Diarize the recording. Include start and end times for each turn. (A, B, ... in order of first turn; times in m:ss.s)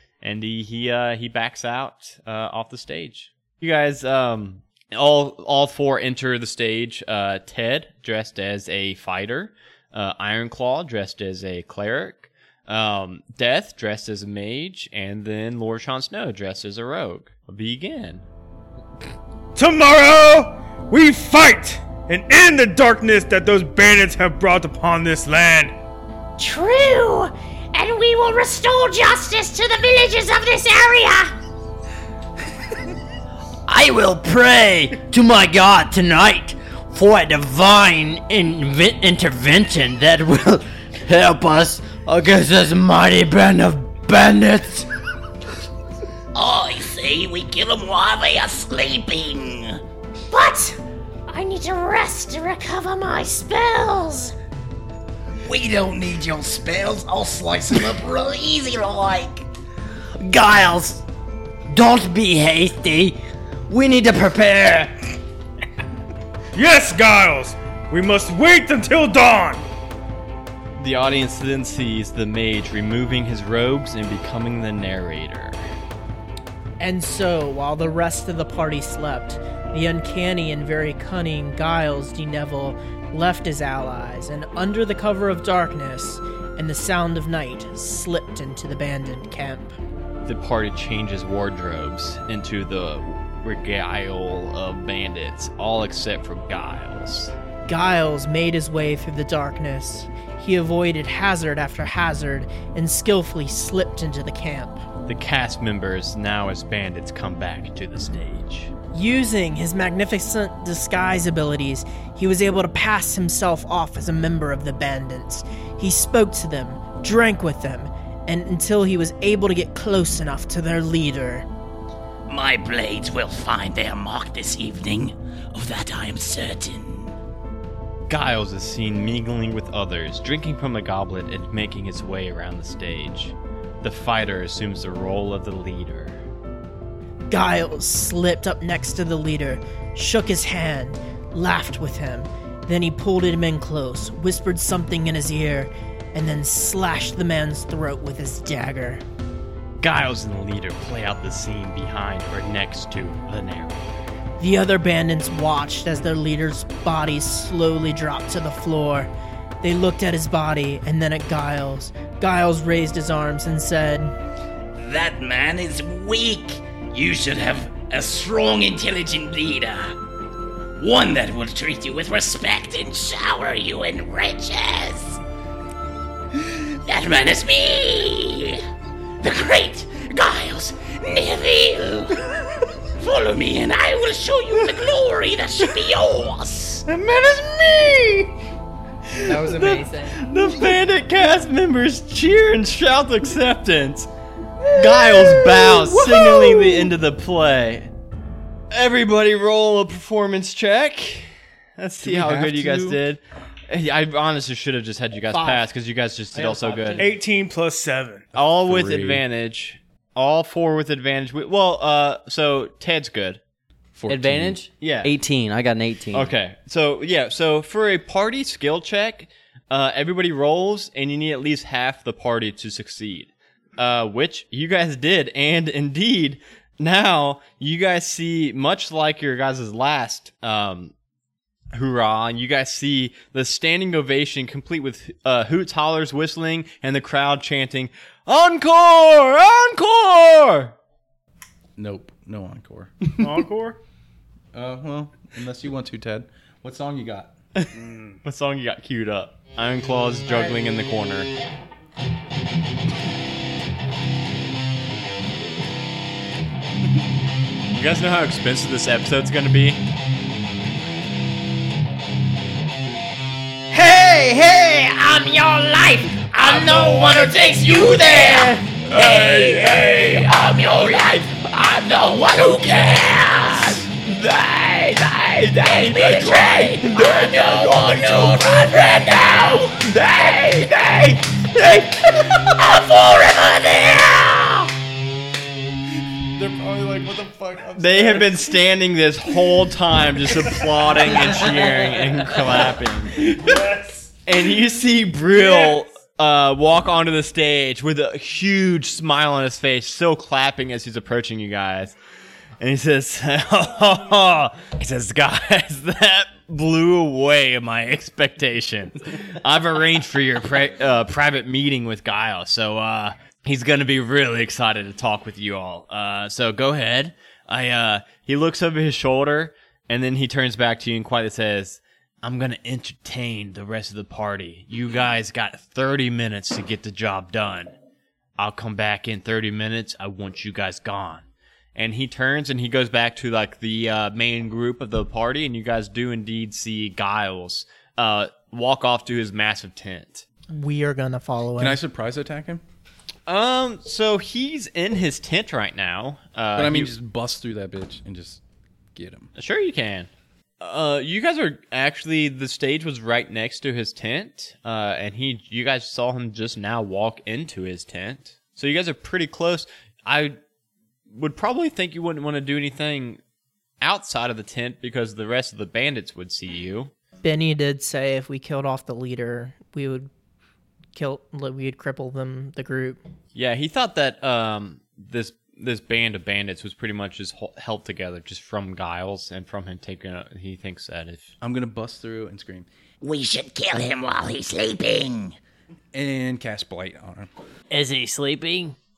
0:00.2-0:18.2 A
0:19.6-0:25.8 B
0:26.4-0:31.3 C
0:33.7-0:44.9 D
0:46.3-0:49.8 E
0:50.3-0:50.6 C
0:51.3-0:54.3 C
0:55.3-0:59.4 E
1:00.2-1:01.0 D
1:01.7-1:05.0 D
1:06.5-1:09.6 B
1:10.8-1:15.6 A
1:16.8-1:29.8 F
1:30.2-1:37.3 A
1:37.7-1:44.8 F
1:45.1-1:48.7 A
1:48.9-2:01.5 F
2:02.3-2:07.2 E
2:08.1-2:16.2 A
2:17.3-2:29.0 F
2:29.8-2:33.9 A
2:34.4-2:39.1 F
2:39.6-2:44.2 F
2:44.8-2:50.0 E
2:50.8-2:55.2 E
2:56.3-2:58.6 E
2:59.2-3:02.2 E
3:02.9-3:06.9 E
3:06.9-3:08.3 B
3:09.2-3:14.1 A
3:09.2-3:10.3 F
3:14.7-3:17.9 A
3:14.8-3:16.7 F
3:18.7-3:27.1 A
3:22.0-3:23.0 G
3:25.3-3:25.6 F
3:26.3-3:27.2 D
3:27.0-3:28.3 B
3:28.3-3:29.2 G
3:28.3-3:33.4 A
3:33.9-3:34.6 G
3:34.1-3:36.3 D
3:34.8-3:35.1 A
3:36.1-3:50.9 A
3:51.7-4:00.8 A
4:01.8-4:03.3 G
4:03.2-4:03.8 B
4:04.5-4:07.4 G
4:07.6-4:11.3 A
4:07.8-4:08.2 B
4:17.7-4:19.8 A
4:23.7-4:44.7 E
4:36.0-4:39.0 G
4:46.3-4:48.5 G
4:47.8-4:53.3 A
4:53.6-4:53.9 B
4:54.2-5:02.0 A
5:02.6-5:27.7 A
5:28.4-5:31.2 A
5:31.8-5:40.2 A
5:40.5-5:41.8 F
5:41.6-5:42.6 G
5:43.3-5:46.9 A
5:46.5-5:48.4 G
5:49.0-5:49.3 G
5:49.4-5:50.1 A
5:50.6-6:00.4 A
6:01.1-6:03.2 A
6:03.8-6:06.9 A
6:07.2-6:10.1 F
6:11.0-6:13.0 F
6:13.4-6:21.3 A
6:21.4-6:22.7 G
6:23.0-6:25.4 E
6:25.9-6:27.3 G
6:27.7-6:28.8 D